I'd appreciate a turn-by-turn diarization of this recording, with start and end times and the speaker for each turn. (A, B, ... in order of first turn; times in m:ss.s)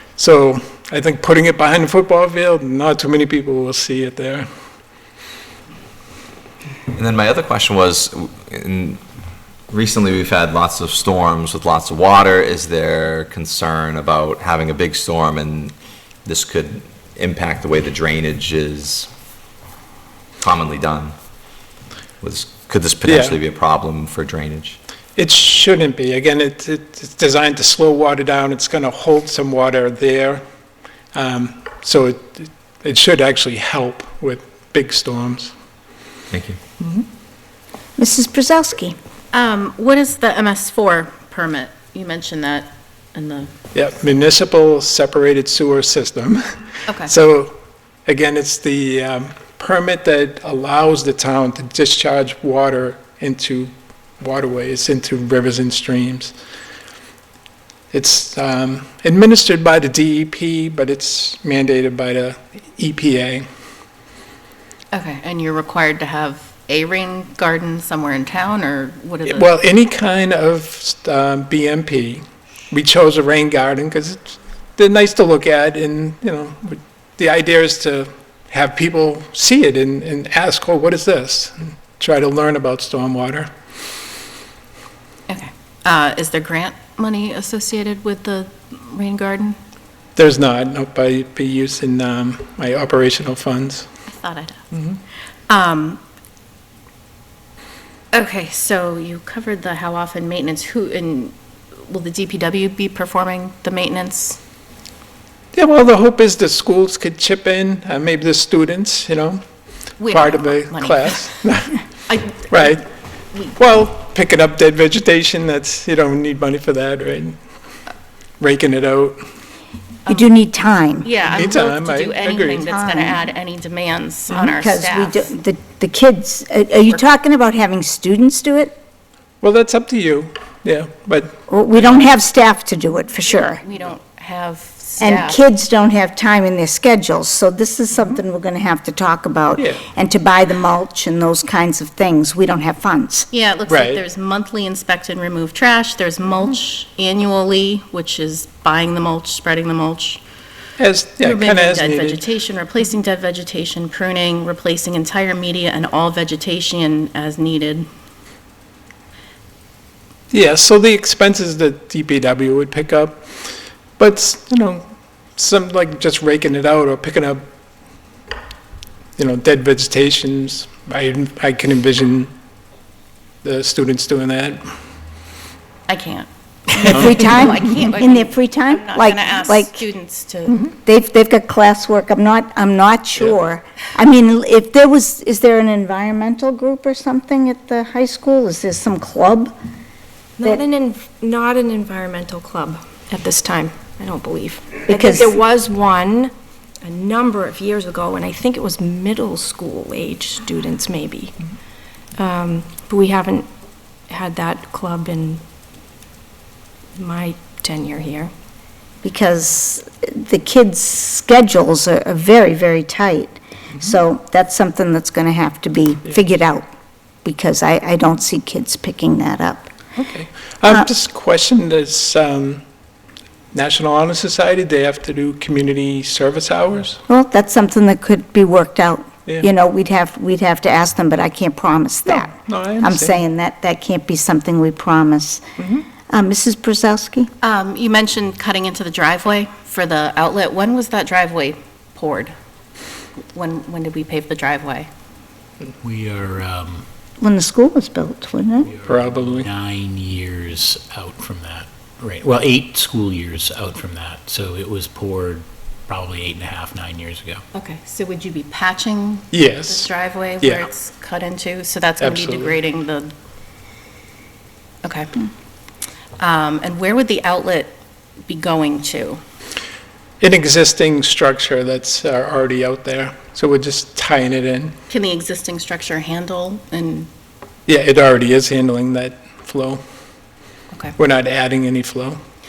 0:00.2-0:04.5 A
0:06.9-0:09.0 B
0:09.7-0:15.7 B
0:16.2-0:19.1 B
0:20.4-0:21.2 B
0:22.2-0:24.8 B
0:23.0-0:23.4 A
0:25.2-0:30.4 A
0:31.1-0:35.5 A
0:36.3-0:36.6 B
0:38.0-0:39.0 C
0:39.3-0:43.5 D
0:43.7-0:46.5 A
0:47.0-0:47.6 A
0:48.1-0:56.3 A
0:57.9-1:03.5 A
1:04.9-1:09.5 D
1:09.3-1:23.5 A
1:25.3-1:29.6 D
1:30.2-1:33.9 A
1:34.1-1:34.6 D
1:35.5-1:36.0 D
1:38.1-1:41.3 D
1:41.8-1:44.4 D
1:45.5-1:49.4 A
1:50.0-1:51.2 D
1:50.1-1:51.8 A
1:52.1-1:52.8 D
1:52.5-1:52.8 A
1:53.6-1:57.4 A
1:58.4-1:59.2 A
2:00.1-2:01.1 C
2:01.0-2:05.3 D
2:01.3-2:02.7 A
2:02.7-2:03.2 C
2:04.3-2:08.8 C
2:09.4-2:12.0 A
2:11.5-2:13.6 C
2:13.4-2:15.4 D
2:15.0-2:23.3 C
2:19.6-2:19.8 A
2:23.3-2:30.2 D
2:23.7-2:24.0 A
2:30.8-2:32.2 A
2:31.2-2:37.9 D
2:40.3-2:43.3 A
2:44.0-2:44.8 A
2:45.4-2:47.4 A
2:49.2-2:52.3 A
2:53.4-2:54.7 A
2:55.9-3:00.6 D
2:56.8-2:59.8 C
3:00.6-3:09.5 C
3:10.4-3:16.3 E
3:14.9-3:15.3 C
3:16.8-3:21.4 E
3:22.2-3:23.5 E
3:24.1-3:25.4 E
3:27.0-3:28.3 E
3:29.0-3:36.7 C
3:37.2-3:39.7 C
3:40.0-3:42.6 A
3:43.5-3:47.0 A
3:47.1-3:55.4 C
3:52.1-3:53.2 A
3:55.6-3:55.8 A
3:56.1-3:57.3 C
3:57.4-4:02.3 D
4:03.3-4:04.9 D
4:05.8-4:06.8 F
4:07.2-4:08.7 C
4:08.7-4:17.4 F
4:08.9-4:09.5 A
4:17.5-4:23.1 D
4:19.3-4:20.7 A
4:22.0-4:22.6 A
4:24.8-4:25.1 D
4:26.2-4:27.7 D
4:28.3-4:29.2 D
4:30.2-4:34.8 A
4:34.9-4:37.1 D
4:37.7-4:39.8 A
4:41.0-4:42.2 A